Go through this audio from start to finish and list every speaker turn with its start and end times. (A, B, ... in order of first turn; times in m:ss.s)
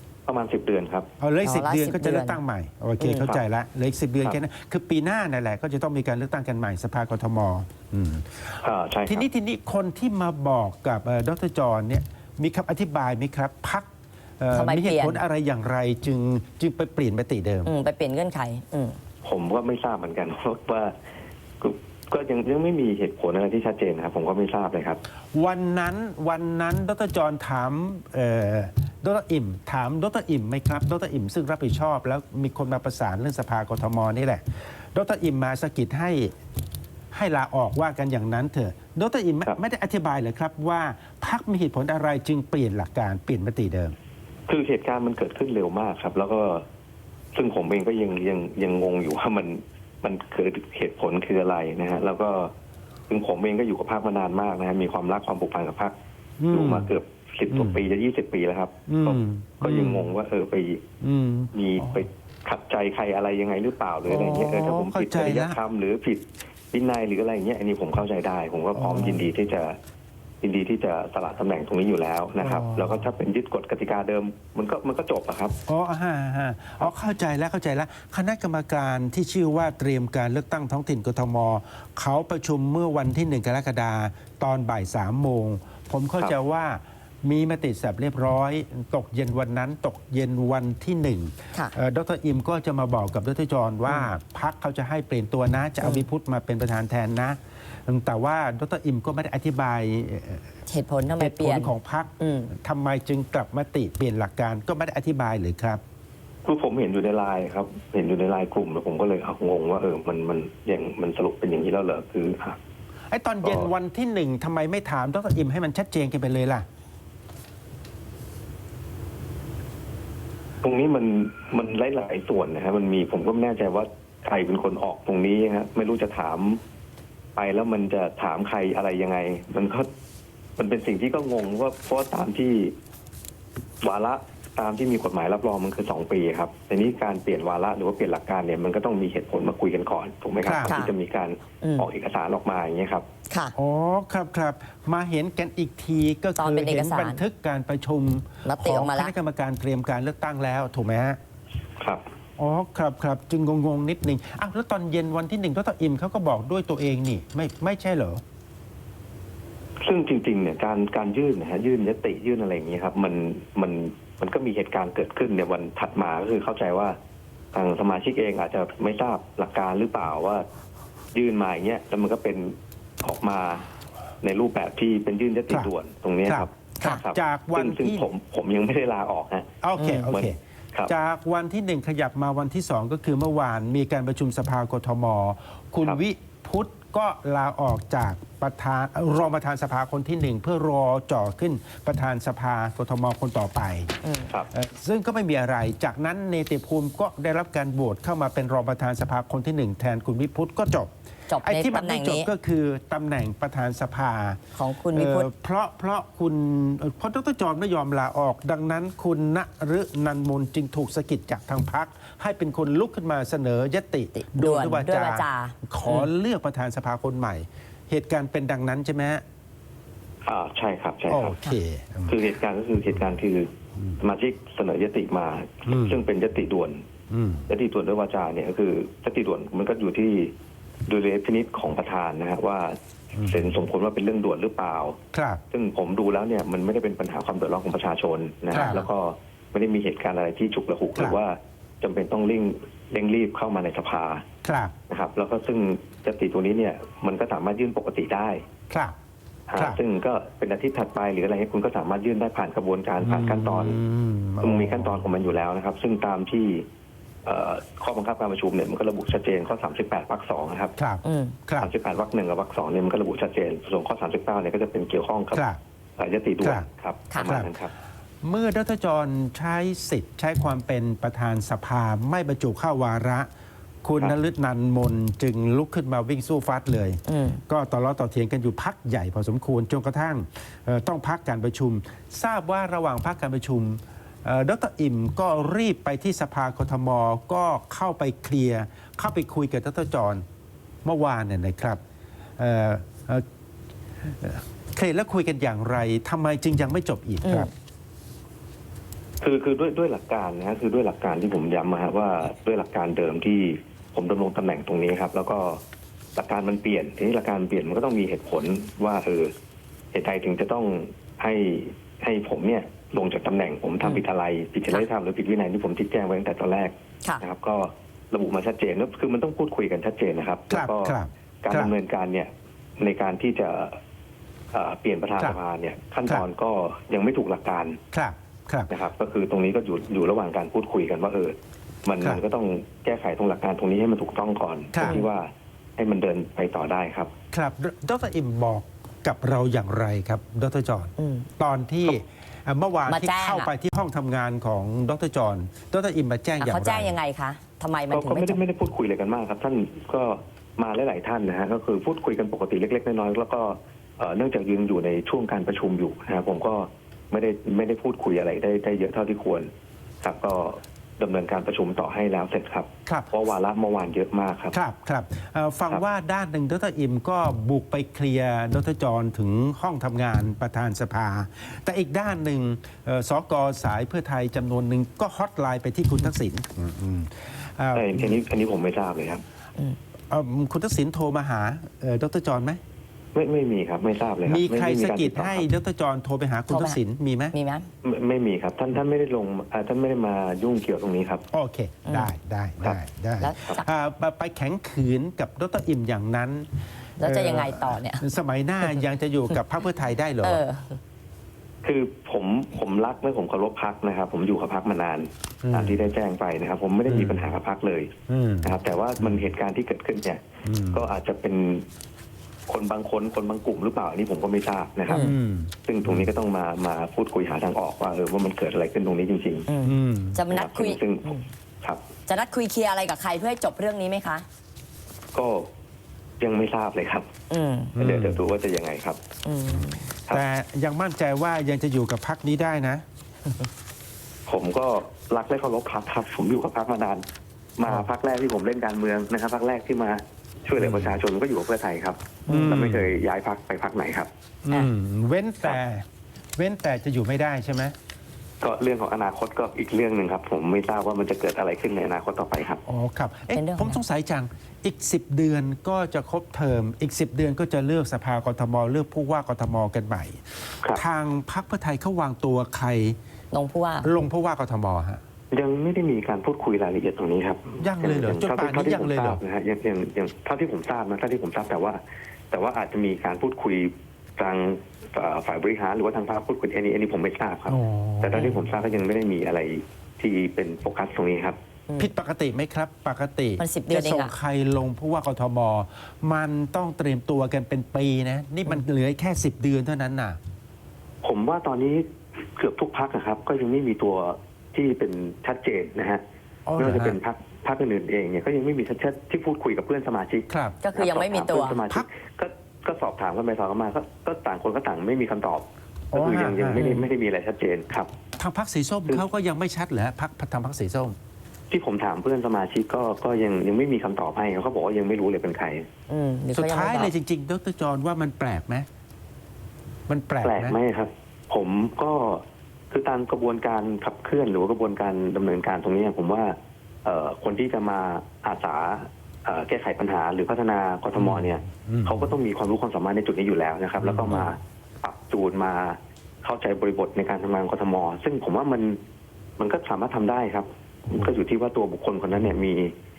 0:00.3-0:01.1 A
0:01.2-0:13.9 B
0:01.4-0:02.4 C
0:03.0-0:03.4 A
0:08.6-0:09.3 A
0:14.4-0:17.7 B
0:14.5-0:15.2 C
0:17.6-0:19.0 C
0:19.2-0:20.9 A
0:21.6-0:25.0 A
0:25.3-0:36.3 B
0:37.1-0:43.9 B
0:44.5-0:46.6 A
0:47.3-0:52.5 A
0:53.1-0:55.9 A
0:56.4-0:56.9 B
0:56.5-1:00.8 A
0:57.5-0:57.8 B
0:58.9-1:00.1 B
1:01.0-1:02.0 B
1:01.5-1:09.8 A
1:04.1-1:05.6 B
1:08.7-1:09.2 B
1:10.4-1:15.6 A
1:12.4-1:13.0 B
1:15.6-1:40.5 B
1:35.8-1:36.1 C
1:40.7-1:42.5 C
1:41.2-1:45.8 B
1:46.4-1:52.6 A
1:53.1-1:56.6 B
1:53.4-1:53.7 A
2:00.6-2:06.6 A
2:07.4-2:09.9 A
2:10.6-2:12.7 A
2:13.8-2:23.0 A
2:20.4-2:20.8 B
2:20.6-2:20.9 C
2:21.6-2:21.9 C
2:23.5-2:31.2 B
2:26.4-2:27.2 C
2:28.4-2:29.1 C
2:32.4-2:38.2 B
2:39.8-2:47.0 A
2:47.5-2:50.4 A
2:51.1-2:53.7 A
2:54.2-2:59.5 A
2:56.2-2:58.1 B
2:59.6-3:00.4 B
2:59.8-3:00.1 C
3:00.1-3:00.9 A
3:00.9-3:14.0 B
3:14.0-3:14.3 C
3:14.5-3:24.4 B
3:21.3-3:22.3 C
3:24.6-3:25.3 C
3:24.9-3:39.2 B
3:34.1-3:36.1 C
3:40.2-3:41.4 A
3:41.1-3:42.2 B
3:42.1-3:46.8 A
3:45.7-3:46.0 B
3:47.1-3:47.5 B
3:47.5-3:50.3 A
3:50.9-3:55.0 A
3:53.1-3:53.4 B
3:55.1-3:55.4 B
3:55.5-4:04.2 A
3:58.5-3:58.9 B
4:04.4-4:04.7 B
4:04.9-4:08.4 A
4:08.7-4:09.0 B
4:09.5-4:13.8 A
4:13.0-4:15.0 B
4:14.4-4:16.6 A
4:17.2-4:20.7 A
4:20.8-4:21.7 B
4:21.0-4:21.4 C
4:21.6-4:25.4 A
4:25.3-4:25.6 B
4:26.0-4:27.7 A
4:27.2-4:27.5 B
4:28.2-4:33.3 B
4:33.8-4:50.2 B
4:37.1-4:37.4 C
4:50.8-4:51.8 B
4:52.4-4:53.2 B
4:54.0-4:57.5 B
4:57.2-4:57.5 C
4:59.2-5:05.6 A
5:06.1-5:09.3 A
5:09.9-5:23.8 A
5:20.5-5:21.7 B
5:24.5-5:27.8 A
5:27.9-5:28.7 B
5:28.7-5:37.1 A
5:34.7-5:35.0 B
5:37.3-5:47.0 B
5:41.0-5:41.3 C
5:42.9-5:43.5 C
5:46.4-5:48.4 C
5:47.9-5:59.5 A
6:00.0-6:04.6 A
6:02.8-6:03.1 B
6:04.5-6:18.2 B
6:17.7-6:19.2 A
6:20.1-6:22.6 B
6:23.1-6:25.5 A
6:24.2-6:27.4 B
6:26.5-6:26.8 C
6:27.3-6:27.7 C
6:27.8-6:31.2 A
6:31.3-6:36.5 B
6:31.8-6:32.1 C
6:33.2-6:33.6 C
6:37.0-6:38.0 C
6:37.0-6:40.4 B
6:40.2-6:40.8 C
6:41.6-6:47.9 A
6:45.4-6:45.8 B
6:46.9-6:47.3 B
6:48.1-6:49.2 B
6:48.4-6:51.6 A
6:50.4-6:50.8 B
6:52.5-6:55.1 A
6:54.9-6:55.1 C
6:54.9-6:56.1 B
6:55.6-6:59.5 A
6:59.5-7:01.2 C
6:59.6-7:00.2 B
7:00.3-7:01.8 A
7:02.1-7:04.2 C
7:05.1-7:05.5 A
7:06.2-7:07.1 A
7:07.3-7:07.8 C
7:07.8-7:08.2 B
7:07.8-7:09.0 A
7:09.2-7:09.8 C
7:10.1-7:12.8 B
7:14.3-7:17.0 A
7:17.6-7:24.1 A
7:20.6-7:21.0 B
7:22.3-7:22.5 C
7:22.3-7:23.0 B
7:24.4-7:25.8 B
7:26.4-7:27.7 B
7:28.4-7:32.6 A
7:32.6-7:43.0 B
7:33.3-7:33.8 C
7:43.3-7:43.9 C
7:43.8-7:45.0 B
7:45.3-7:51.8 A
7:47.6-7:49.2 B
7:52.3-8:01.4 A
7:57.5-7:58.5 B
8:01.8-8:10.2 B
8:03.4-8:04.1 C
8:11.0-8:16.0 A
8:16.4-8:17.0 B
8:16.6-8:27.9 A
8:20.3-8:20.6 B
8:20.6-8:21.6 C
8:25.9-8:26.7 B
8:26.6-8:26.8 C
8:28.2-8:31.0 B
8:31.5-8:35.6 A
8:35.9-8:36.9 C
8:36.3-8:38.6 B
8:39.9-8:40.6 B
8:40.2-8:58.8 A
8:51.0-8:52.1 B
8:53.8-8:54.3 B
8:59.4-9:02.7 A